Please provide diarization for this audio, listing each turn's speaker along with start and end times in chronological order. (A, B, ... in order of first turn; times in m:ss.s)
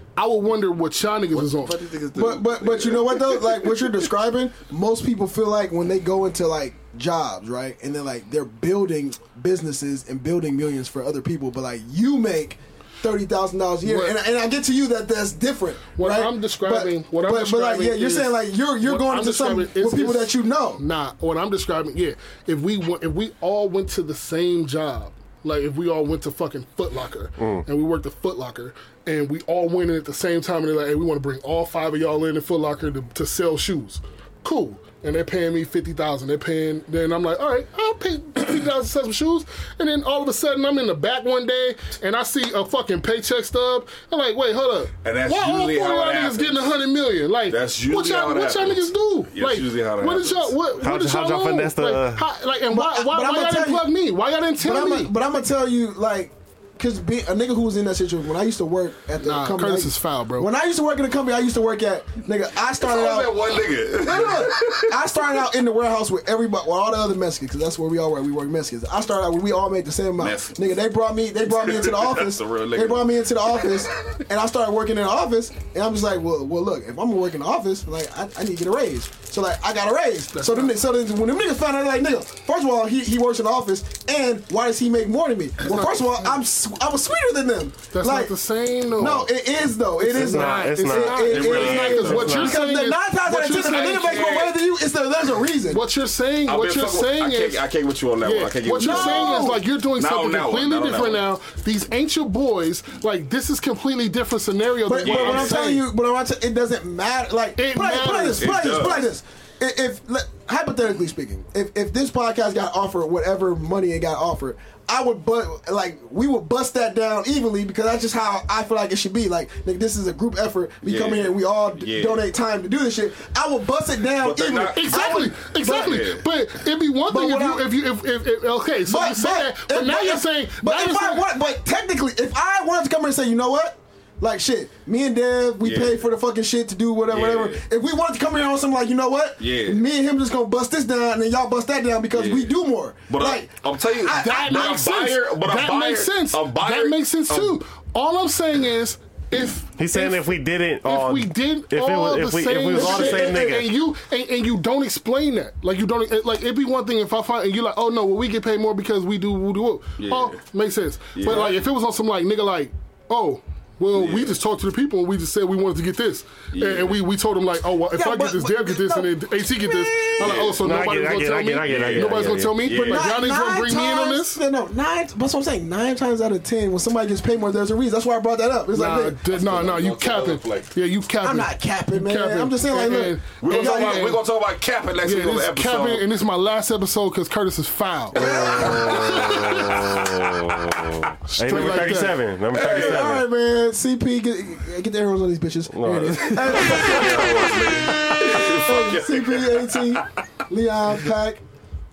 0:00.2-0:01.8 A
0:01.3-0:04.1 B
0:02.1-0:20.8 C
0:13.8-0:14.2 A
0:16.0-0:55.1 A
0:45.0-0:46.7 B
0:47.5-0:50.5 B
0:50.8-0:52.3 D
0:52.7-0:53.9 C
0:54.6-1:28.3 C
0:59.2-1:00.5 A
1:02.7-1:05.4 B
1:10.2-1:10.8 B
1:11.4-1:13.8 B
1:20.3-1:20.8 A
1:25.6-1:26.4 A
1:27.9-1:29.4 A
1:29.0-1:35.8 C
1:30.0-1:34.3 A
1:30.1-1:31.4 D
1:31.3-1:32.6 B
1:33.9-1:34.6 B
1:35.7-1:37.6 A
1:36.4-1:41.3 B
1:38.2-1:45.9 A
1:38.8-1:39.6 C
1:44.8-2:06.1 C
1:45.0-1:45.6 B
1:47.6-1:48.8 A
1:48.4-1:49.2 B
2:00.8-2:02.3 B
2:04.2-2:06.3 B
2:04.7-2:11.3 A
2:07.1-2:07.6 C
2:08.8-2:24.6 C
2:15.6-2:16.0 B
2:17.1-2:17.6 B
2:19.4-2:19.8 B
2:22.1-2:22.6 B
2:23.1-2:27.6 B
2:24.1-2:30.3 A
2:29.7-2:33.7 D
2:30.8-2:54.4 A
2:32.7-2:33.4 C
2:32.9-2:33.3 B
2:40.0-2:40.4 B
2:41.1-2:41.6 B
2:43.9-2:44.4 B
2:46.5-2:47.0 B
2:47.9-2:50.4 C
2:50.1-2:50.7 B
2:50.6-2:52.6 D
2:51.6-2:53.1 B
2:52.8-2:59.6 C
2:58.7-3:04.2 A
2:59.3-3:00.8 B
3:01.2-3:04.1 C
3:03.4-3:06.0 B
3:05.0-3:08.2 A
3:08.1-3:12.0 B
3:08.1-3:09.1 C
3:08.2-3:13.2 D
3:11.3-3:12.2 A
3:12.5-3:13.2 B
3:12.5-3:21.4 C
3:15.7-3:16.9 D
3:16.2-3:20.2 B